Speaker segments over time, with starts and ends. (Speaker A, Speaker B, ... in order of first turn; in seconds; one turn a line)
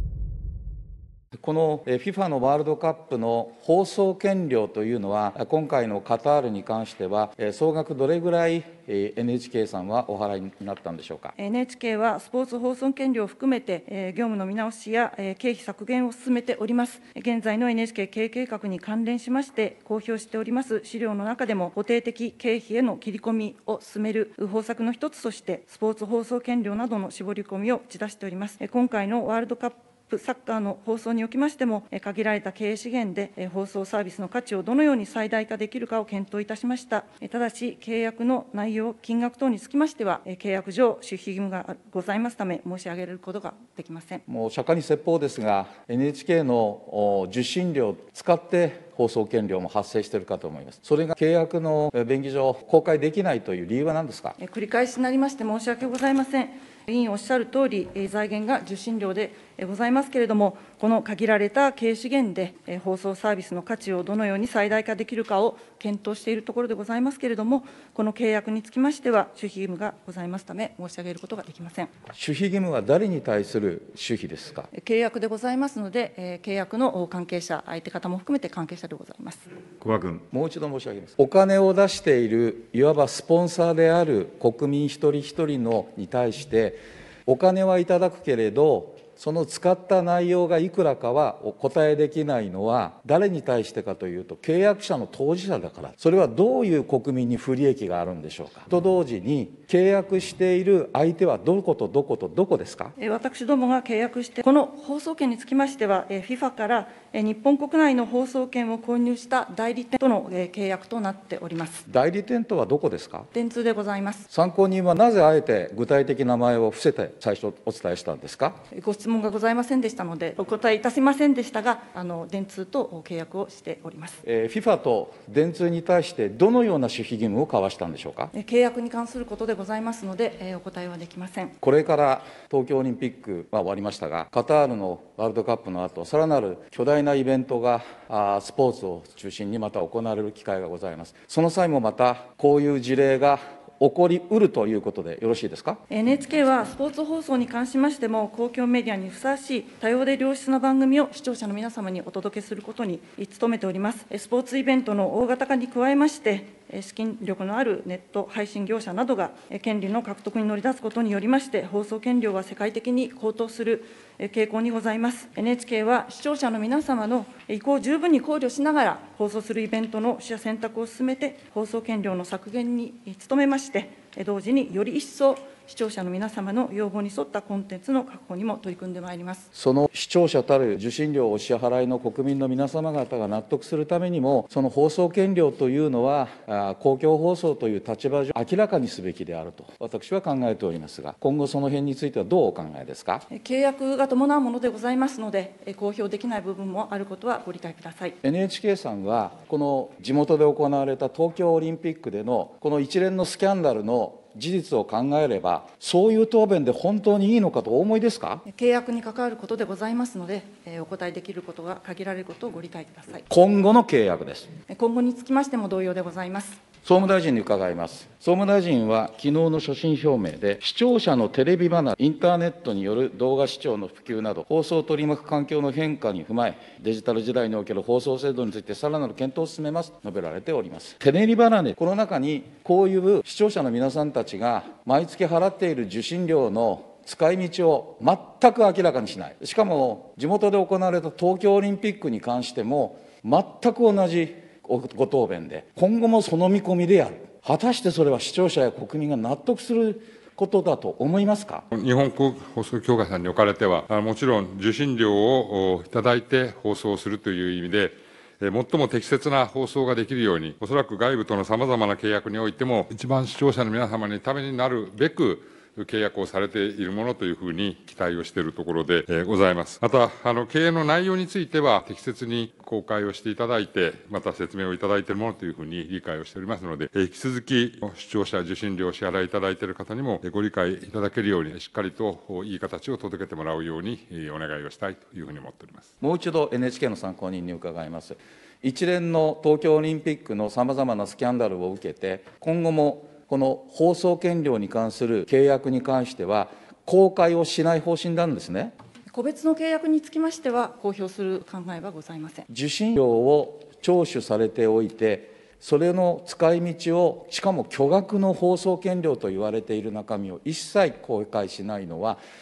Speaker A: 1.4-11.3
Speaker B: 11.4-44.2
Speaker A: 44.3-54.4
Speaker B: 54.4-71.9
Speaker A: 72.1-74.7
Speaker B: 74.7-79.5
Speaker A: 79.8-102.9
Speaker B: 103.0-111.8
Speaker A: 111.9-113.3
Speaker B: 113.3-114.2
Speaker A: 114.3-118.6
Speaker B: 118.7-124.2
Speaker A: 124.2-128.3
Speaker B: 128.3-131.5
Speaker A: 131.6-145.8
Speaker B: 145.9-179.4
Speaker A: 179.5-193.2
Speaker B: 193.3-198.1
Speaker A: 198.2-208.4
Speaker B: 208.4-213.2
Speaker A: 213.3-214.5
Speaker B: 214.7-216.6
Speaker A: 216.8-251.6
Speaker C: 251.7-285.9
Speaker A: 286.0-298.7
Speaker B: 299.1-302.4
Speaker A: 302.5-312.2